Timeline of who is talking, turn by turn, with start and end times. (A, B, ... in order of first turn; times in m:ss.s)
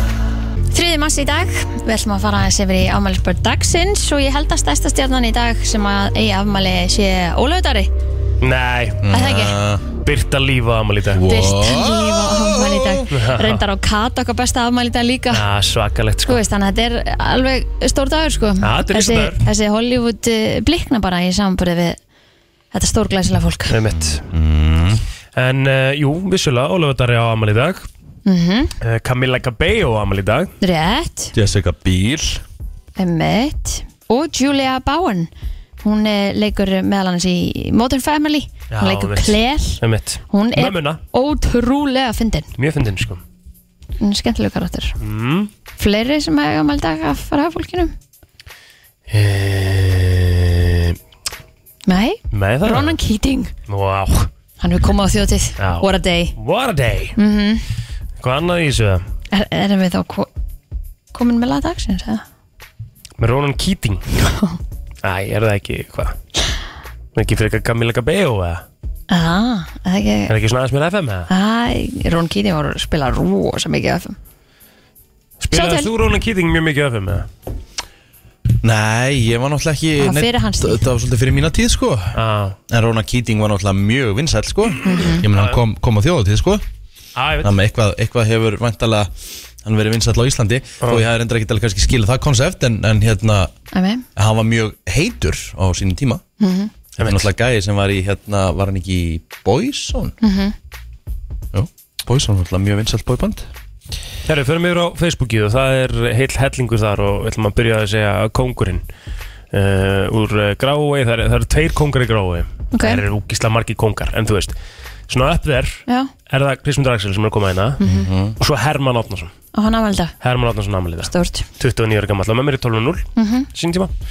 0:00.7-0:07.9 A
0:08.4-0:09.0 B
0:09.0-0:09.8 C
0:09.1-0:09.6 A
0:10.0-0:11.4 B
0:11.1-0:13.1 C
0:11.2-0:15.4 A
0:13.1-0:13.6 B
0:15.3-0:16.4 B
0:16.2-0:22.0 A
0:18.6-0:19.4 B
0:22.7-0:23.7 A
0:23.7-0:24.2 B
0:23.9-0:25.0 C
0:25.4-0:27.9 B
0:28.2-0:28.7 A
0:28.8-0:30.5 B
0:30.6-0:31.3 A
0:31.3-0:32.4 C
0:33.0-0:35.3 A
0:35.8-0:39.8 A
0:38.7-0:41.0 B
0:40.3-0:42.5 A
0:42.6-0:43.2 B
0:44.0-0:44.9 A
0:45.0-0:45.5 B
0:45.8-0:47.9 A
0:49.1-0:51.0 B
0:51.9-0:53.5 A
0:52.3-0:53.0 B
0:53.7-0:54.3 B
0:54.6-0:56.3 A
0:55.6-0:57.1 B
0:57.2-0:57.6 A
0:58.2-0:59.0 B
0:59.3-1:00.3 A
1:01.1-1:02.2 A
1:03.2-1:04.1 B
1:05.0-1:06.2 B
1:07.1-1:08.6 B
1:09.1-1:10.3 A
1:10.3-1:11.3 B
1:11.3-1:14.2 A
1:15.4-1:17.3 B
1:15.5-1:15.9 A
1:18.6-1:22.2 C
1:20.0-1:20.8 A
1:22.1-1:22.6 B
1:22.7-1:26.6 C
1:24.8-1:25.2 A
1:25.3-1:25.6 B
1:27.2-1:27.5 B
1:27.4-1:29.1 C
1:29.6-1:33.5 C
1:33.7-1:34.0 A
1:34.2-1:36.2 C
1:36.4-1:36.7 A
1:37.0-1:40.1 C
1:37.0-1:37.3 B
1:40.2-1:40.5 A
1:41.5-1:43.5 C
1:44.2-1:48.8 B
1:49.5-1:54.6 B
1:52.7-1:53.0 A
1:55.1-1:57.8 B
1:57.8-1:58.1 A
1:57.8-1:58.4 C
1:58.4-1:59.3 B
1:59.5-2:00.1 A
2:00.2-2:03.9 B
2:01.1-2:01.4 A
2:03.2-2:03.5 A